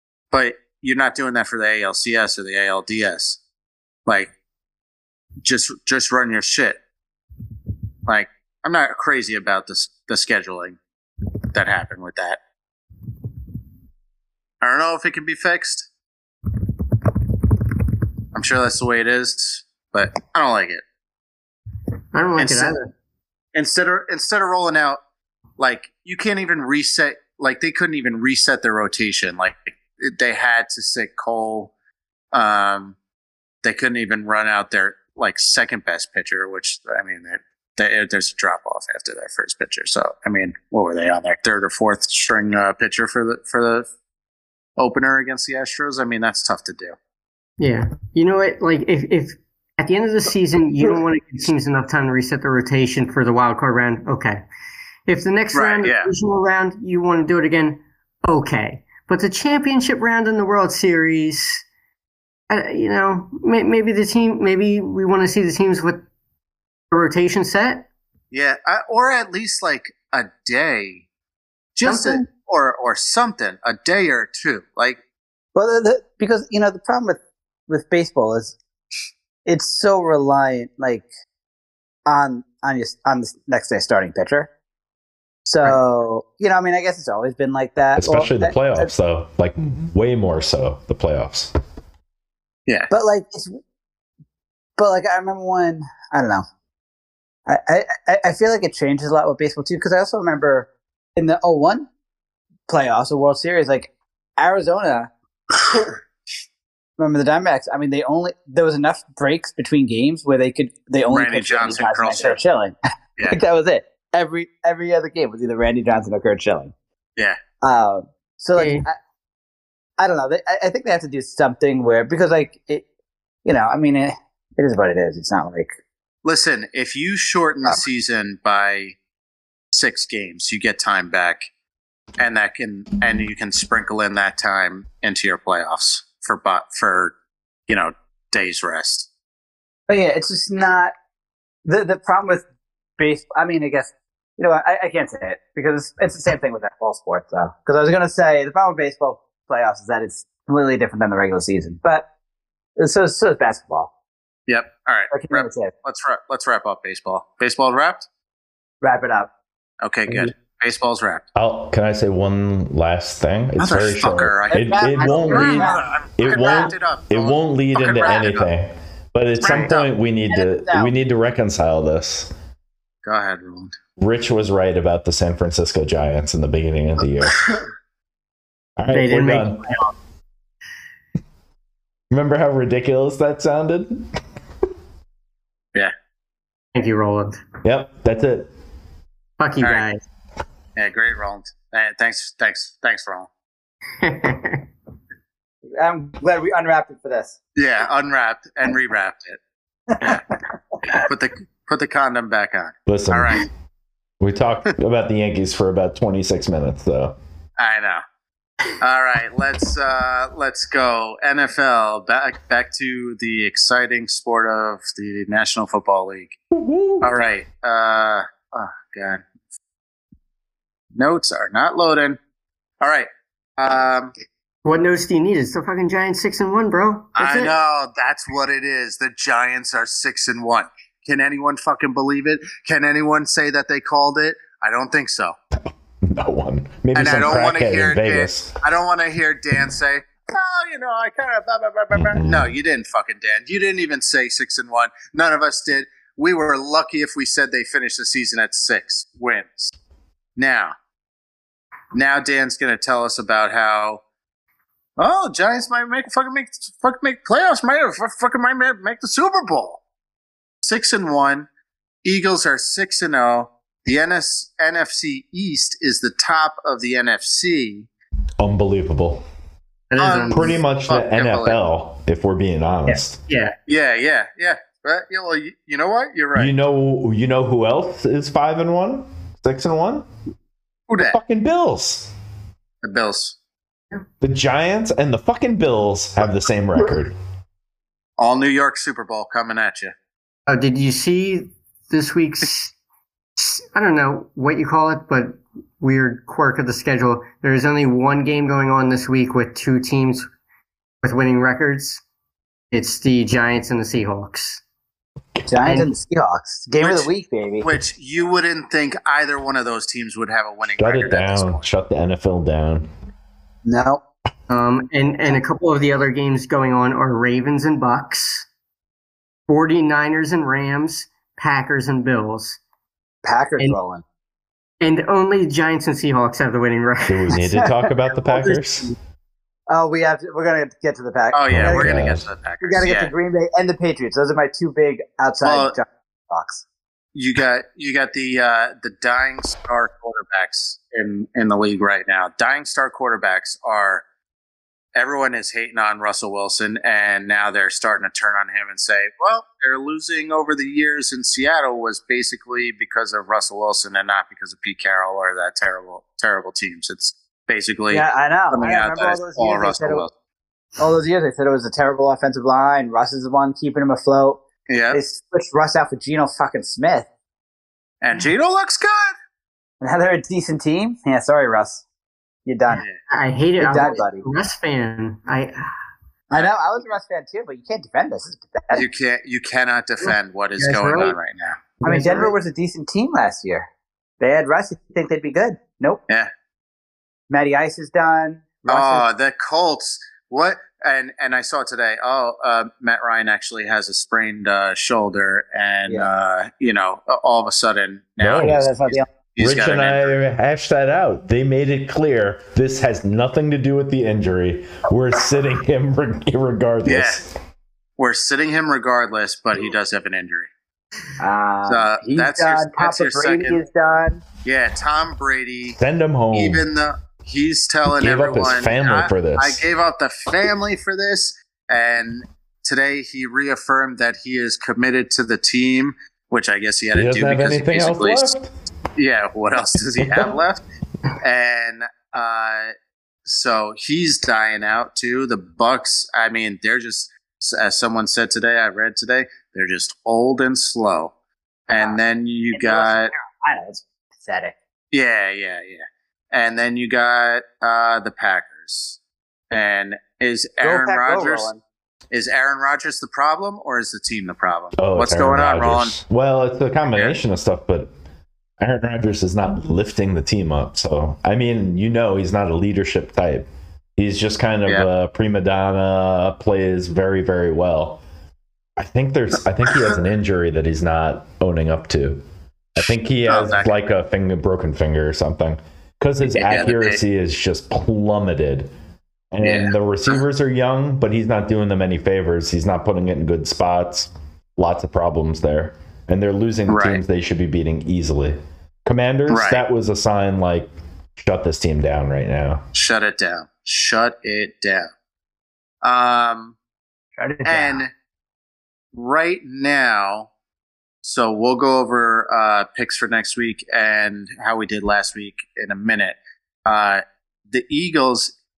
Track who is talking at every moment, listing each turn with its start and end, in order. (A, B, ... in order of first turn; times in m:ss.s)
0:00.3-0:03.4 A
0:04.0-0:04.3 A
0:05.4-0:06.8 A
0:08.0-0:10.8 A
0:11.5-0:12.4 A
0:14.6-0:15.9 A
0:18.3-0:20.8 A
0:22.1-0:22.9 B
0:22.4-0:22.7 A
0:23.5-0:25.0 A
0:25.6-0:31.7 A
0:32.3-0:33.0 A
0:33.6-0:43.9 A
0:44.8-0:47.0 A
0:47.6-0:54.4 B
0:55.1-1:01.6 B
0:55.5-0:56.1 A
1:02.5-1:06.0 B
1:06.9-1:07.9 B
1:08.3-1:11.0 A
1:11.7-1:15.0 A
1:11.8-1:12.2 B
1:15.5-1:18.6 C
1:19.4-1:21.1 C
1:22.1-1:24.5 C
1:25.4-1:28.9 C
1:28.0-1:31.5 D
1:32.9-1:33.6 C
1:34.8-1:36.4 C
1:37.5-1:41.9 C
1:42.7-1:45.1 C
1:47.0-1:52.8 C
1:51.1-1:52.4 A
1:53.3-1:56.7 C
1:57.6-1:59.0 C
1:58.6-1:58.8 B
2:00.0-2:02.8 C
2:03.4-2:05.7 C
2:06.2-2:09.0 A
2:09.7-2:11.4 A
2:12.2-2:17.1 A
2:17.7-2:19.1 A
2:19.9-2:20.9 C
2:21.6-2:22.4 C
2:23.0-2:32.0 C
2:32.8-2:33.9 C
2:34.5-2:38.1 A
2:35.1-2:35.7 C
2:38.8-2:39.3 C
2:39.8-2:41.2 A
2:41.3-2:52.3 D
2:43.6-2:48.5 A
2:44.5-2:45.9 C
2:45.0-2:45.6 B
2:49.4-2:49.8 A
2:49.4-2:49.7 B
2:50.3-2:50.9 C
2:53.0-2:53.8 A
2:54.0-2:57.6 D
2:58.8-2:59.7 D
2:58.9-2:59.9 B
3:02.1-3:04.1 D
3:06.7-3:07.4 B
3:07.6-3:08.5 D
3:09.4-3:10.0 B
3:10.8-3:13.3 A
3:14.0-3:14.7 B
3:15.8-3:17.4 C
3:17.6-3:19.4 A
3:19.9-3:20.4 C
3:20.9-3:23.5 A
3:22.8-3:23.5 D
3:24.2-3:27.2 D
3:27.6-3:28.0 A
3:28.8-3:36.4 A
3:36.5-3:37.1 D
3:37.0-3:39.2 A
3:41.0-3:42.2 A
3:42.8-3:44.1 A
3:44.6-3:47.5 B
3:47.2-3:55.3 A
3:56.0-3:58.6 D
3:56.9-4:09.7 A
4:01.9-4:02.5 D
4:10.4-4:10.7 A
4:11.9-4:14.0 A
4:15.0-4:19.8 A
4:20.6-4:21.5 A
4:22.0-4:27.9 A
4:28.4-4:29.2 D
4:29.9-4:30.6 B
4:30.0-4:31.6 A
4:30.3-4:33.2 D
4:33.3-4:33.6 B
4:33.7-4:36.6 A
4:36.4-4:40.1 D
4:40.9-4:41.2 A
4:41.0-4:42.1 D
4:42.8-4:43.4 A
4:44.2-4:47.2 D
4:48.2-4:49.9 A
4:50.5-4:52.7 B
4:53.4-5:00.3 B
5:01.0-5:02.0 B
5:02.7-5:04.6 B
5:05.5-5:07.7 C
5:05.6-5:05.9 B
5:06.8-5:07.1 A
5:07.6-5:11.6 A
5:10.8-5:12.9 D
5:13.6-5:14.0 C
5:14.5-5:18.5 B
5:19.5-5:22.6 B
5:23.2-5:24.0 C
5:24.8-5:27.4 B
5:27.1-5:28.9 D
5:27.5-5:27.9 C
5:28.3-5:28.9 B
5:29.7-5:32.0 C
5:31.3-5:33.1 A
5:31.5-5:32.3 D
5:32.6-5:36.6 C
5:35.4-5:35.7 A
5:37.1-5:44.0 A
5:45.0-6:00.1 A
5:57.9-6:00.0 C
6:00.8-6:07.1 C
6:04.7-6:05.0 A
6:08.0-6:09.2 A
6:09.8-6:11.8 C
6:12.4-6:12.8 C
6:13.1-6:15.7 B
6:13.6-6:14.2 C
6:16.3-6:18.8 C
6:18.7-6:21.6 A
6:20.0-6:21.2 B
6:21.8-6:23.7 C
6:21.8-6:22.3 B
6:24.2-6:26.0 C
6:27.3-6:29.0 C
6:28.7-6:40.2 A
6:38.2-6:38.6 D
6:38.4-6:39.1 C
6:39.4-6:47.3 D
6:46.8-6:47.2 A
6:48.0-6:50.5 A
6:51.2-6:54.2 C
6:51.7-6:53.6 A
6:54.4-6:55.8 A
6:55.8-6:56.6 D
6:56.3-7:08.3 A
6:57.9-6:59.6 D
7:06.9-7:08.5 D
7:09.0-7:10.6 A
7:11.2-7:12.7 A
7:13.2-7:21.1 A
7:21.7-7:23.1 A
7:22.5-7:24.5 C
7:24.9-7:29.0 A
7:29.5-7:31.5 A
7:30.6-7:31.6 C
7:32.1-7:35.9 A
7:34.8-7:37.9 D
7:38.6-7:48.0 D
7:48.8-7:52.2 D
7:52.7-7:58.7 D
7:53.2-7:53.7 A
7:56.4-7:57.0 A
7:59.3-8:12.6 D
7:59.4-7:59.7 A
8:06.7-8:07.0 A
8:09.3-8:09.6 A
8:12.7-8:14.9 A
8:15.8-8:16.6 A
8:17.2-8:17.8 C
8:17.4-8:17.9 A
8:18.9-8:20.3 A
8:21.0-8:28.3 A